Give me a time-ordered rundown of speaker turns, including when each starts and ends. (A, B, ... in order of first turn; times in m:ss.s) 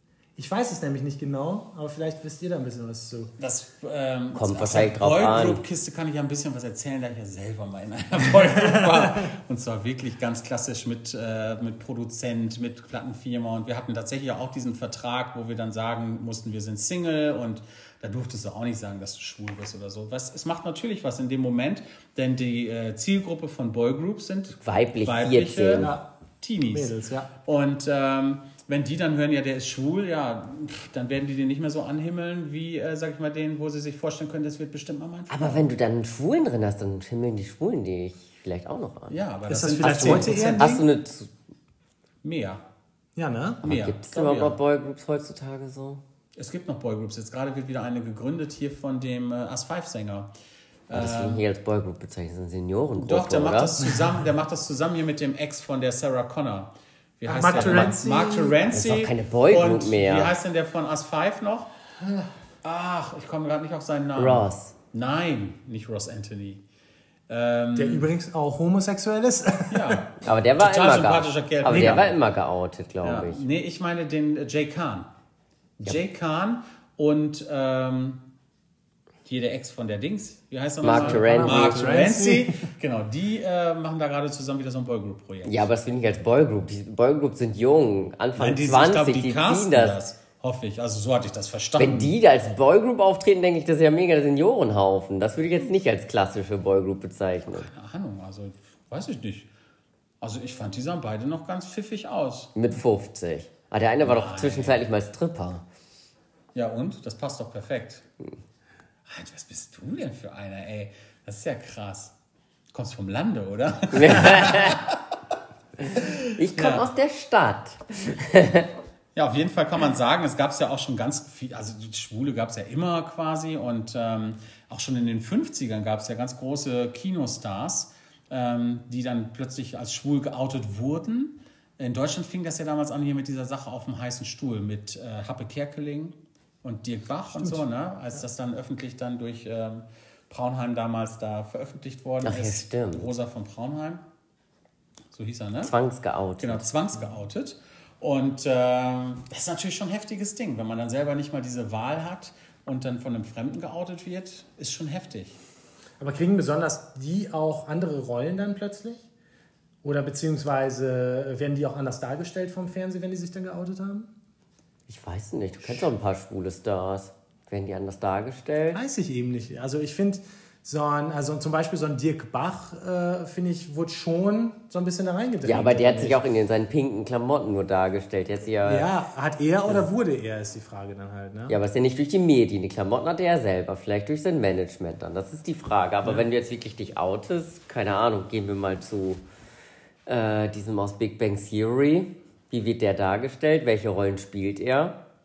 0:00.4-0:03.3 A
0:03.4-0:26.9 B
0:04.4-0:05.6 C
0:24.6-0:25.9 C
0:25.8-0:26.0 A
0:26.7-0:27.3 A
0:27.4-0:35.7 B
0:35.3-0:39.2 C
0:39.1-0:40.8 B
0:39.5-0:40.8 A
0:39.8-0:41.3 C
0:42.2-0:42.6 B
0:43.2-0:43.6 A
0:43.6-0:44.6 B
0:43.6-0:46.0 C
0:46.4-0:50.3 B
0:50.9-0:51.4 B
0:50.9-0:53.8 C
0:53.0-1:01.7 B
0:57.3-0:58.6 A
0:57.5-0:58.0 C
0:58.7-1:00.3 C
1:02.6-1:06.6 B
1:04.2-1:04.7 C
1:07.3-1:08.1 B
1:07.8-1:10.0 A
1:09.7-1:12.2 B
1:10.2-1:13.4 C
1:11.7-1:12.0 A
1:13.0-1:15.1 B
1:15.8-1:18.2 B
1:19.3-1:25.7 B
1:20.8-1:22.0 C
1:20.9-1:22.7 A
1:25.4-1:30.0 C
1:28.4-1:32.2 B
1:31.8-1:37.7 C
1:37.5-1:39.5 B
1:40.2-1:42.5 B
1:42.6-1:45.6 C
1:44.0-1:44.8 B
1:46.6-1:48.0 B
1:49.1-1:52.1 B
1:52.7-1:55.1 B
1:53.9-1:54.8 C
1:55.8-1:58.7 C
1:56.0-1:56.9 B
1:59.1-2:24.0 B
2:22.2-2:23.1 C
2:25.1-2:25.7 B
2:25.6-2:26.6 C
2:26.4-2:35.4 B
2:36.0-2:39.0 A
2:39.8-2:44.1 A
2:44.9-2:48.8 C
2:48.7-2:56.2 A
2:55.4-2:58.9 C
2:58.6-3:01.6 A
3:01.5-3:09.2 C
3:10.1-3:15.0 C